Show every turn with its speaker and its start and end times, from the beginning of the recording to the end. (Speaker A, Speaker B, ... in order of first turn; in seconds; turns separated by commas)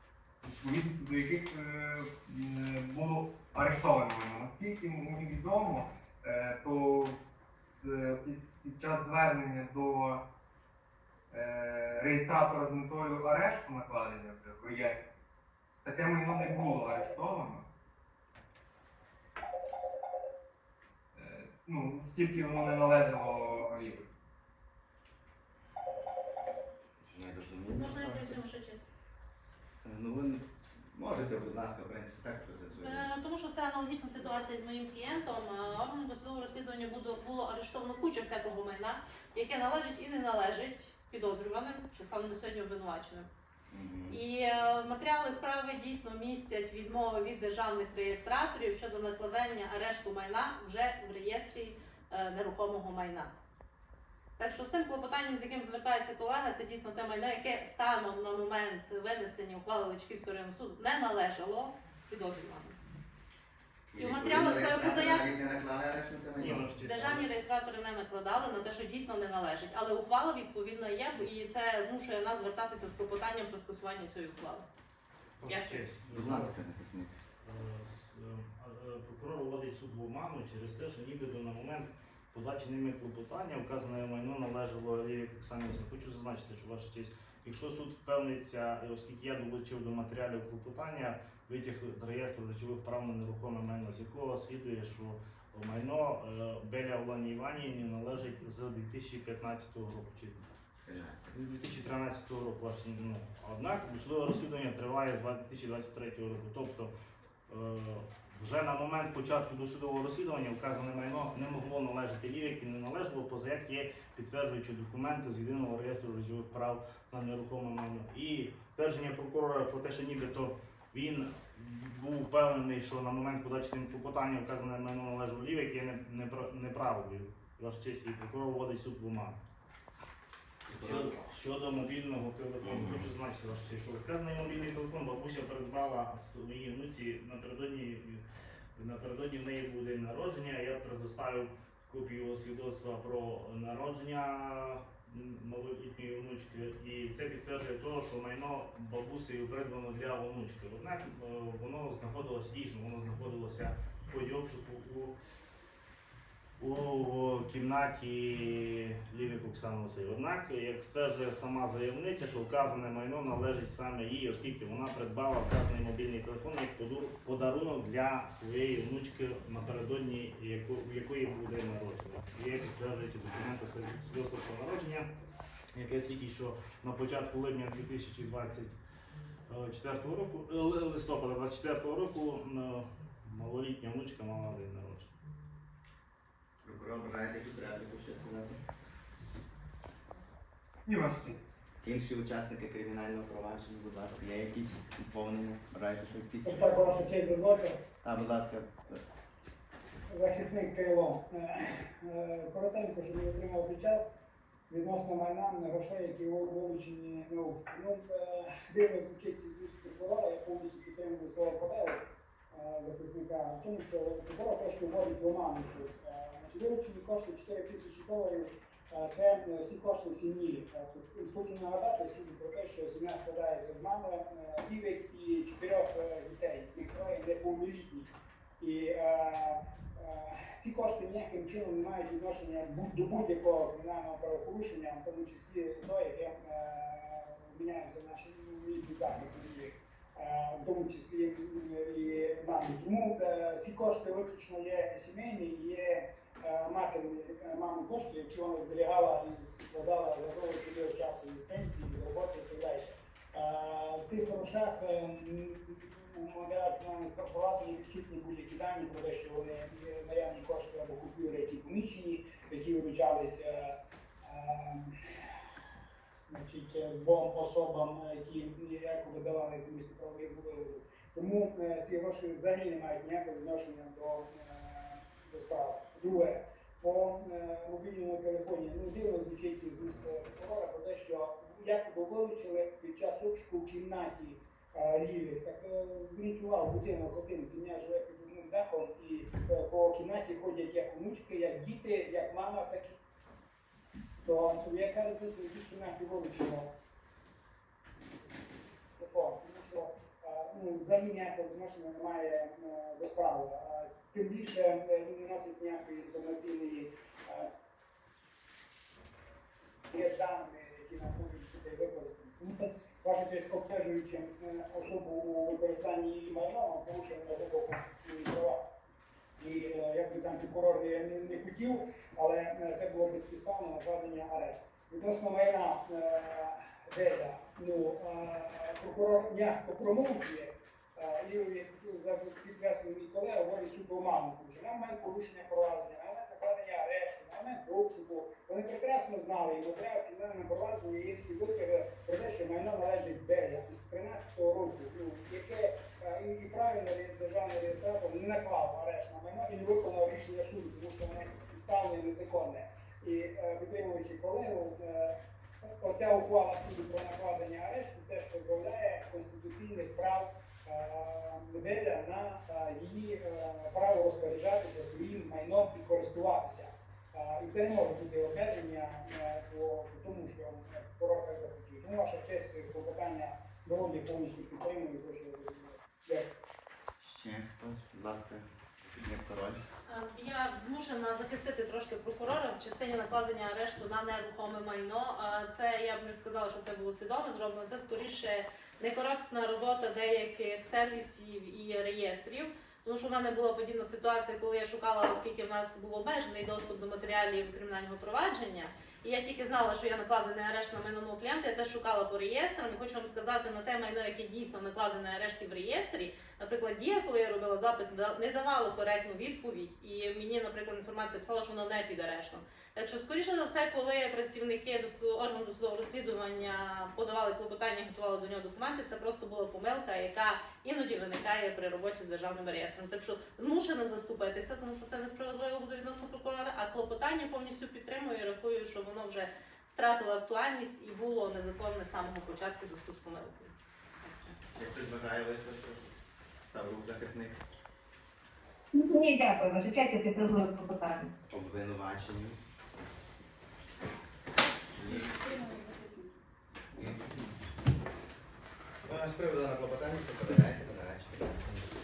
Speaker A: 0.4-10.2, Speaker A: 11.3-15.1, Speaker A: 15.8-17.6, Speaker A: 21.1-24.1, Speaker B: 27.1-28.4, Speaker C: 27.8-28.8, Speaker B: 29.8-33.1, Speaker C: 32.8-43.3, Speaker B: 43.7-44.2, Speaker C: 44.1-53.3, Speaker C: 54.4-62.8, Speaker B: 63.9-66.7, Speaker C: 64.0-65.3, Speaker D: 66.4-67.3, Speaker C: 66.8-74.7, Speaker D: 75.4-76.6, Speaker C: 75.5-75.8, Speaker B: 76.1-77.1, Speaker D: 77.4-100.4, Speaker B: 100.8-101.3, Speaker D: 101.3-106.9, Speaker D: 107.5-129.4, Speaker B: 130.7-131.2, Speaker D: 130.7-138.2, Speaker B: 132.6-133.1, Speaker D: 138.8-155.2, Speaker D: 156.6-175.1, Speaker D: 175.7-178.7, Speaker D: 179.5-185.1, Speaker B: 186.6-188.6, Speaker A: 190.9-191.6, Speaker B: 191.8-196.8, Speaker E: 196.5-197.8, Speaker B: 198.0-199.0, Speaker E: 200.1-204.1, Speaker E: 204.7-212.0, Speaker E: 212.5-264.9, Speaker E: 266.3-293.0, Speaker E: 294.2-296.7, Speaker E: 299.0-307.5, Speaker E: 309.9-318.6, Speaker E: 319.4-355.1, Speaker E: 355.8-376.3, Speaker B: 377.0-379.7, Speaker C: 379.9-434.4, Speaker B: 434.5-435.9, Speaker B: 436.5-437.4, Speaker F: 438.7-441.1, Speaker B: 441.3-442.4, Speaker B: 444.8-445.4, Speaker F: 445.3-446.1, Speaker B: 446.7-447.3, Speaker B: 448.9-451.4